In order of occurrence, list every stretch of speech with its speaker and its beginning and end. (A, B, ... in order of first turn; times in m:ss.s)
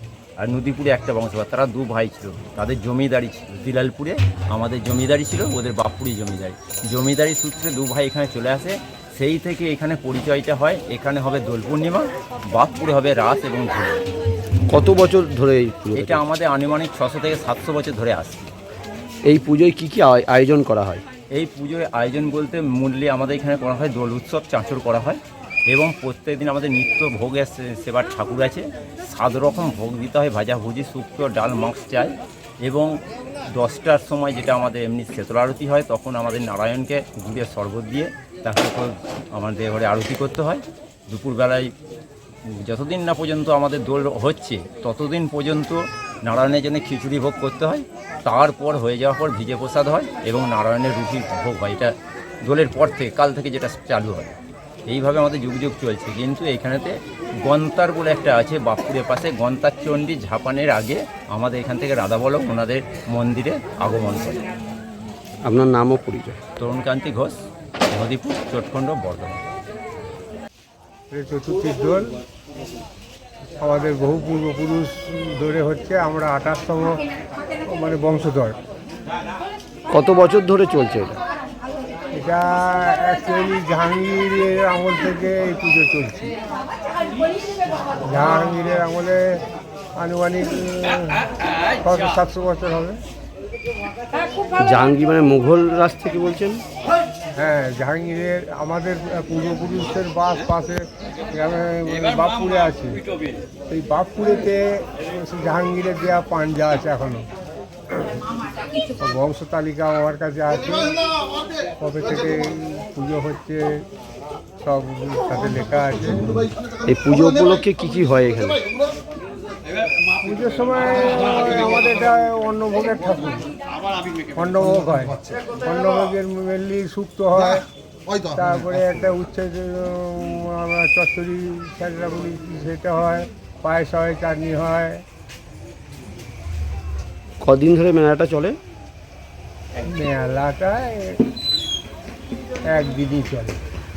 0:00.4-0:14.0 A
0:14.7-0:16.2 B
0:15.9-0:18.5 A
0:19.2-0:21.0 B
0:21.3-0:41.7 A
0:42.5-0:54.3 A
0:54.9-1:04.4 A
1:05.4-1:06.4 B
1:06.6-1:09.4 A
1:11.1-1:12.1 C
1:13.6-1:17.0 C
1:17.7-1:18.5 C
1:19.9-1:21.2 B
1:22.1-1:26.3 C
1:28.1-1:29.4 C
1:30.0-1:31.2 C
1:31.8-1:33.0 C
1:34.6-1:36.6 B
1:37.4-1:43.0 C
1:43.7-1:47.2 C
1:49.0-1:51.0 C
1:51.8-1:53.8 C
1:54.6-1:56.5 C
1:56.9-1:58.6 B
2:00.2-2:03.4 C
2:04.4-2:07.6 C
2:08.3-2:15.0 C
2:17.4-2:18.6 B
2:19.8-2:21.2 C
2:22.7-2:23.6 C